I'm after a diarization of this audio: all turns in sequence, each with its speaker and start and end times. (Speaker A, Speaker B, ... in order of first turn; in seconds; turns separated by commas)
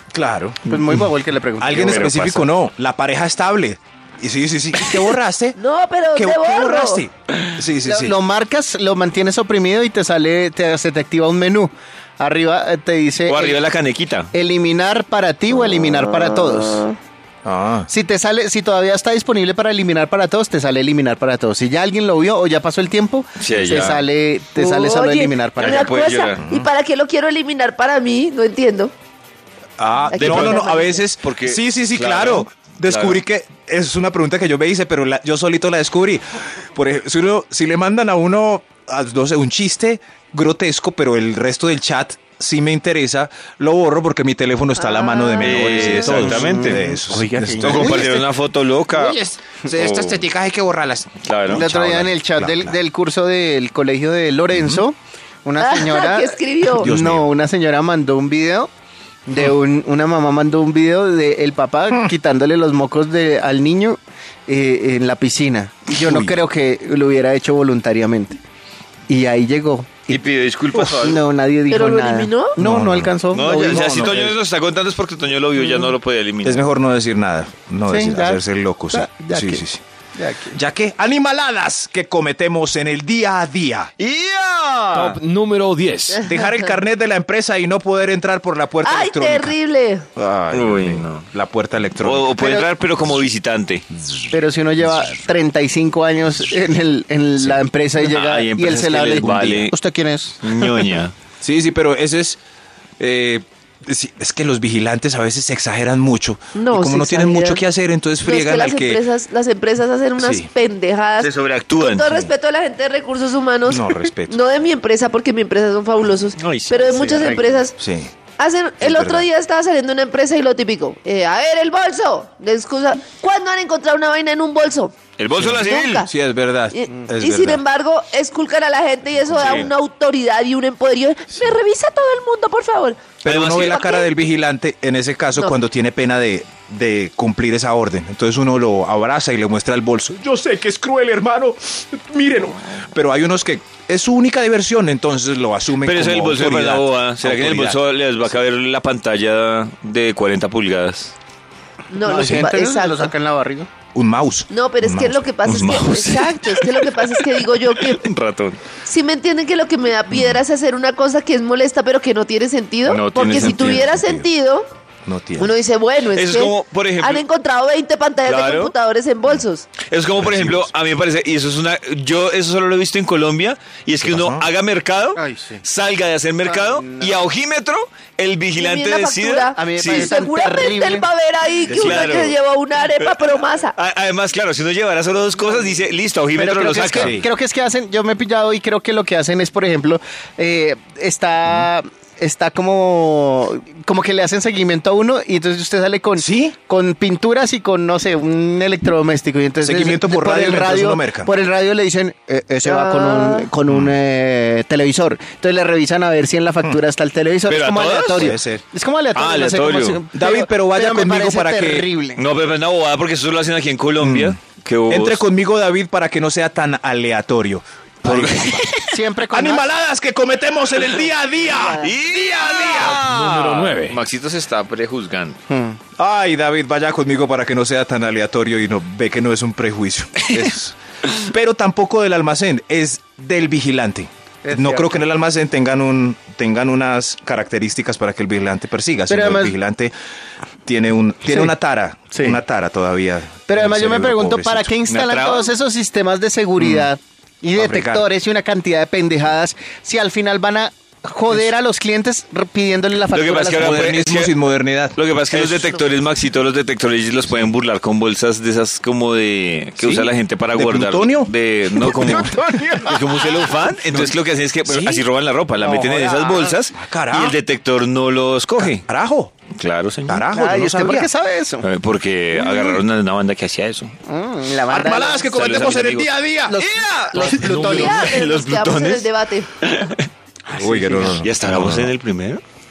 Speaker A: 0.1-0.6, Speaker B: 0.7-2.5, Speaker C: 0.7-1.0, Speaker A: 1.6-5.6, Speaker C: 1.8-2.1, Speaker D: 5.6-7.0, Speaker A: 6.2-8.2, Speaker B: 7.8-13.6, Speaker C: 13.3-14.3, Speaker B: 14.3-16.8, Speaker D: 15.5-17.0, Speaker A: 17.4-17.9, Speaker B: 17.9-25.9, Speaker C: 23.4-24.0, Speaker D: 24.6-28.9, Speaker C: 25.6-26.4, Speaker A: 26.4-26.7, Speaker A: 29.8-48.3, Speaker D: 30.1-31.0, Speaker C: 30.2-30.7, Speaker C: 31.2-33.2, Speaker D: 44.8-45.9, Speaker C: 45.4-46.9, Speaker B: 46.0-48.1, Speaker C: 47.6-49.2, Speaker A: 48.9-52.8, Speaker C: 49.7-50.2, Speaker C: 51.2-51.7, Speaker B: 51.5-58.7, Speaker A: 54.5-54.8, Speaker D: 55.6-56.9, Speaker A: 56.8-57.3, Speaker B: 59.3-68.4, Speaker A: 65.9-66.4, Speaker B: 69.1-70.2, Speaker C: 70.1-71.2, Speaker B: 70.9-74.3, Speaker D: 71.7-72.6, Speaker A: 72.6-74.3, Speaker C: 73.3-76.7, Speaker B: 75.6-75.9, Speaker A: 76.4-79.8, Speaker B: 77.9-78.4, Speaker B: 78.9-79.6, Speaker B: 80.2-80.6, Speaker A: 80.5-83.9, Speaker C: 84.0-85.2, Speaker E: 84.9-86.3, Speaker D: 86.1-86.6, Speaker A: 86.2-89.5, Speaker D: 88.8-90.1, Speaker A: 90.2-92.3, Speaker C: 90.5-91.3, Speaker C: 92.0-93.9, Speaker B: 92.4-92.7, Speaker B: 94.3-100.8, Speaker C: 98.0-99.7, Speaker A: 99.2-99.7, Speaker C: 100.4-101.1, Speaker A: 101.4-102.4, Speaker A: 103.0-109.0, Speaker D: 106.5-107.6, Speaker D: 108.2-117.8, Speaker A: 110.2-110.5, Speaker C: 111.2-112.3, Speaker A: 113.7-114.4, Speaker C: 116.4-117.4, Speaker B: 117.2-117.4, Speaker A: 117.8-118.1, Speaker D: 118.4-126.1, Speaker A: 118.8-119.3, Speaker C: 125.2-126.1, Speaker A: 125.4-127.6, Speaker D: 126.7-133.1, Speaker A: 129.2-129.7, Speaker C: 129.4-129.6, Speaker A: 133.2-147.8, Speaker C: 133.2-133.9, Speaker D: 133.7-134.1, Speaker C: 145.8-151.1, Speaker D: 151.9-153.1, Speaker B: 152.0-153.7, Speaker A: 153.9-155.3, Speaker D: 154.5-158.1, Speaker C: 155.5-158.6, Speaker D: 158.8-164.7, Speaker A: 160.1-160.4, Speaker C: 162.9-163.9, Speaker A: 163.5-164.3, Speaker A: 165.1-165.5, Speaker D: 165.4-169.7, Speaker C: 166.2-167.2, Speaker C: 168.2-168.7, Speaker C: 169.9-180.1, Speaker A: 170.2-170.7, Speaker A: 174.0-174.5, Speaker B: 175.2-175.6, Speaker B: 176.4-177.2, Speaker D: 178.6-183.8, Speaker B: 179.6-181.1, Speaker A: 181.7-182.3, Speaker C: 181.7-182.4, Speaker C: 183.0-187.2, Speaker B: 186.3-212.2, Speaker A: 186.9-187.3, Speaker A: 196.2-196.6, Speaker A: 199.6-201.3, Speaker D: 202.7-203.5, Speaker A: 203.7-203.9, Speaker C: 207.5-208.4, Speaker A: 208.2-208.6, Speaker C: 209.1-210.0, Speaker A: 210.1-211.9, Speaker C: 212.2-215.2, Speaker A: 214.0-214.4, Speaker A: 214.9-218.7, Speaker C: 218.0-219.0, Speaker B: 218.8-219.7, Speaker A: 219.3-223.0, Speaker D: 221.5-222.0, Speaker C: 221.8-225.4, Speaker E: 222.9-224.0, Speaker B: 225.5-225.8, Speaker A: 226.0-239.9, Speaker B: 234.4-234.9, Speaker B: 239.1-239.6, Speaker A: 240.7-244.7, Speaker B: 241.3-241.5, Speaker B: 242.1-242.4, Speaker B: 243.5-253.8, Speaker C: 244.9-245.5, Speaker A: 246.6-246.9, Speaker A: 247.6-248.1, Speaker C: 253.1-254.3, Speaker A: 253.6-255.8, Speaker C: 255.0-268.9, Speaker A: 259.8-263.0, Speaker B: 261.8-263.5, Speaker A: 263.9-265.1, Speaker B: 265.6-266.6, Speaker A: 266.7-267.4, Speaker A: 268.6-269.3, Speaker C: 269.6-270.3, Speaker A: 270.1-271.1, Speaker B: 270.3-271.7, Speaker C: 271.6-274.0, Speaker B: 272.4-272.8, Speaker B: 274.1-275.3, Speaker A: 274.7-276.6, Speaker C: 275.3-279.1, Speaker B: 276.5-278.1, Speaker D: 277.5-279.7, Speaker C: 279.6-280.1, Speaker B: 280.5-281.2, Speaker A: 280.5-281.9, Speaker C: 281.0-282.4